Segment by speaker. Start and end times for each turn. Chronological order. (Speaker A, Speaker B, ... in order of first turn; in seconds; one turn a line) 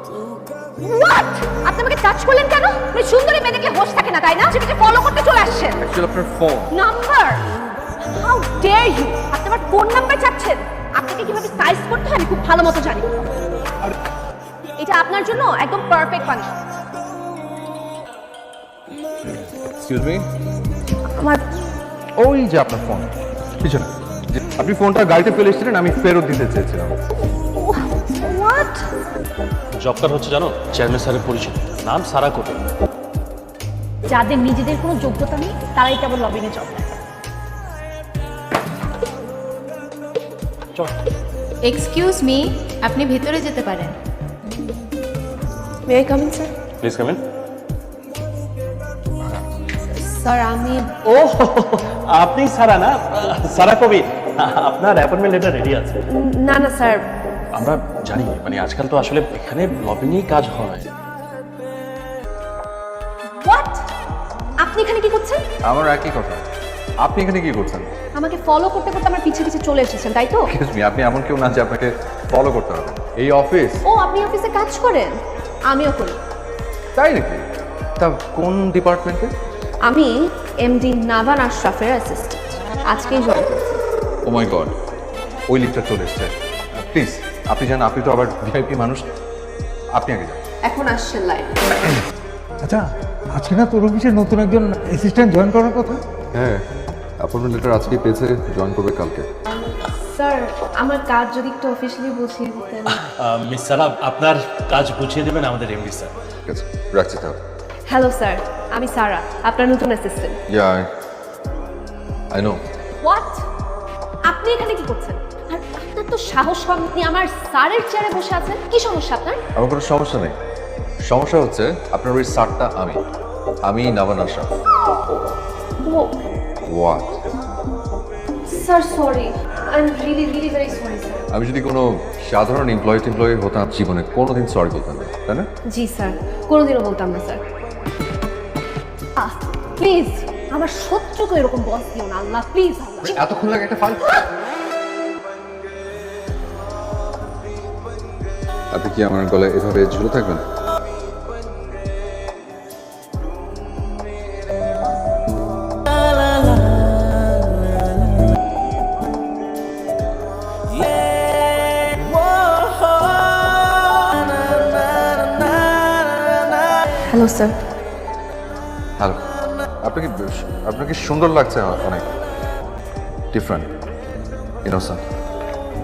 Speaker A: 0.8-5.8
Speaker B: 5.8-6.7
Speaker A: 6.7-7.4
Speaker A: 8.0-13.3
Speaker A: 14.8-16.5
Speaker B: 19.8-20.2
Speaker A: 21.2-21.4
Speaker B: 22.2-23.1
Speaker B: 23.6-27.0
Speaker A: 27.6-28.9
Speaker C: 29.8-32.6
Speaker A: 34.1-36.9
Speaker D: 41.6-43.9
Speaker A: 45.9-46.5
Speaker C: 46.8-47.2
Speaker A: 50.0-50.9
Speaker C: 51.0-56.0
Speaker A: 56.1-57.0
Speaker C: 57.5-60.9
Speaker A: 63.3-63.9
Speaker A: 64.6-65.4
Speaker B: 65.6-66.5
Speaker B: 67.0-67.9
Speaker A: 68.2-70.5
Speaker B: 70.5-73.8
Speaker A: 73.8-75.2
Speaker A: 75.7-76.2
Speaker B: 77.0-77.4
Speaker B: 78.0-79.3
Speaker A: 79.9-80.1
Speaker A: 80.6-83.8
Speaker B: 84.2-84.7
Speaker B: 85.5-89.0
Speaker B: 89.9-90.4
Speaker A: 90.7-91.7
Speaker E: 92.6-96.0
Speaker B: 96.3-96.6
Speaker B: 97.2-99.3
Speaker A: 99.5-103.0
Speaker C: 102.9-106.1
Speaker B: 106.5-107.4
Speaker A: 107.9-110.4
Speaker B: 110.5-110.9
Speaker B: 112.3-112.6
Speaker A: 113.0-113.5
Speaker A: 114.3-119.4
Speaker B: 119.6-120.4
Speaker B: 121.0-123.0
Speaker B: 123.6-124.5
Speaker A: 125.8-126.1
Speaker B: 126.7-127.2
Speaker A: 128.5-131.2
Speaker B: 131.3-135.5
Speaker A: 135.7-137.4
Speaker A: 139.2-143.2
Speaker B: 143.0-144.1
Speaker B: 148.7-150.4
Speaker A: 167.1-167.6
Speaker B: 169.8-172.1
Speaker B: 173.3-173.7
Speaker B: 174.7-175.0